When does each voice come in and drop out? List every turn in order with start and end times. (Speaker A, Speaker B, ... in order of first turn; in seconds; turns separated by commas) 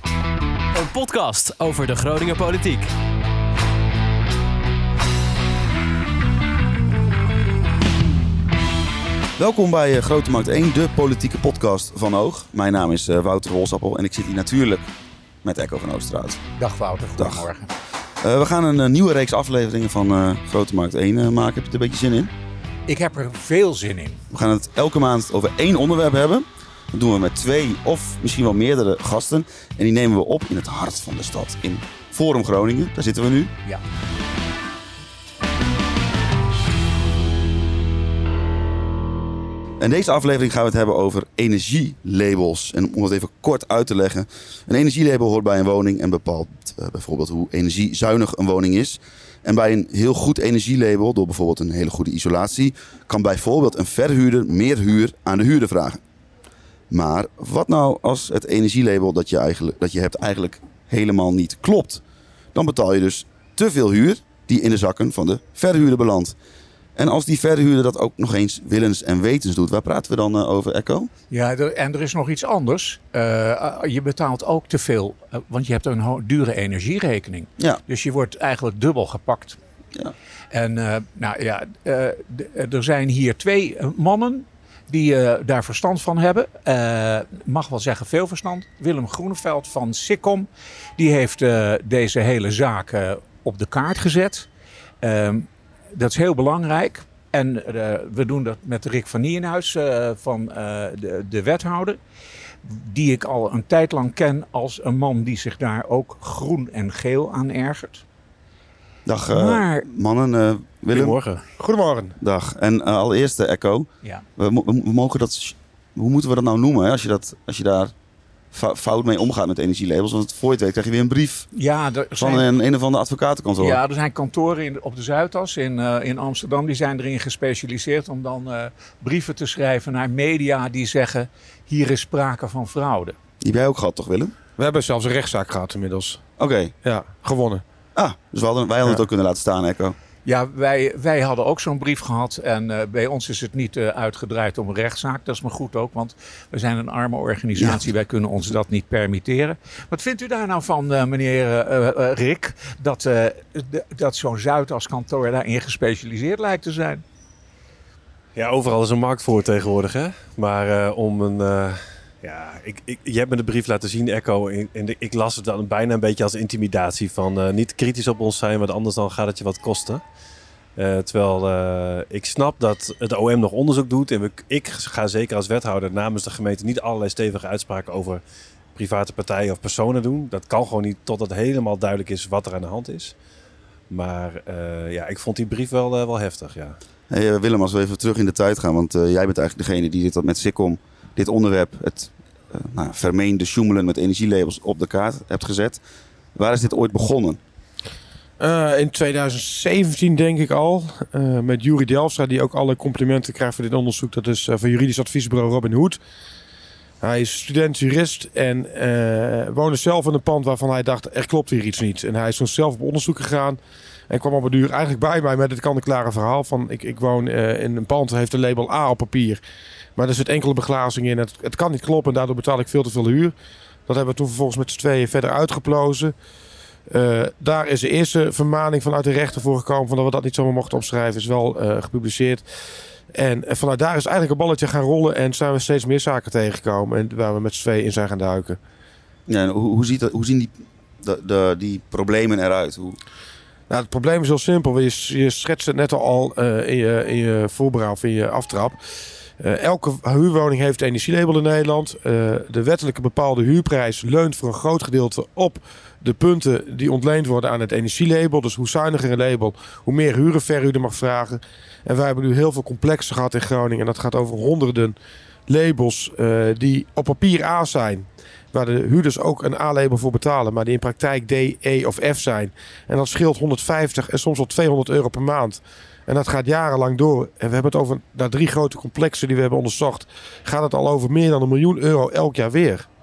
Speaker A: 0.7-2.9, Speaker B: 9.4-14.8, Speaker B: 15.4-16.4, Speaker C: 16.6-17.8, Speaker B: 18.2-22.3, Speaker C: 22.9-24.2, Speaker B: 24.3-33.5, Speaker B: 39.8-56.0, Speaker B: 56.9-62.0, Speaker B: 62.5-66.3, Speaker B: 67.0-71.1, Speaker C: 71.3-79.6, Speaker C: 80.5-94.5, Speaker C: 95.0-102.0, Speaker C: 102.6-108.0, Speaker B: 109.1-111.2, Speaker C: 109.3-109.9, Speaker D: 110.9-111.4, Speaker E: 111.6-112.2, Speaker B: 112.2-117.9, Speaker B: 118.5-121.5, Speaker C: 121.5-122.5, Speaker B: 122.2-123.8, Speaker C: 123.6-133.2, Speaker B: 133.4-134.3, Speaker E: 134.6-136.2, Speaker B: 136.4-136.7, Speaker E: 136.8-137.6, Speaker B: 137.9-140.0, Speaker C: 140.2-157.0, Speaker D: 158.3-170.0, Speaker D: 170.8-178.2, Speaker D: 178.8-183.1, Speaker D: 183.9-186.8, Speaker B: 187.1-195.8, Speaker B: 196.3-197.4, Speaker E: 198.4-206.0, Speaker E: 207.0-219.4, Speaker E: 220.0-223.3, Speaker E: 223.9-226.1, Speaker E: 226.9-232.4, Speaker E: 233.1-238.6, Speaker B: 239.3-243.0, Speaker E: 243.7-248.8, Speaker E: 249.4-264.9, Speaker E: 265.5-282.9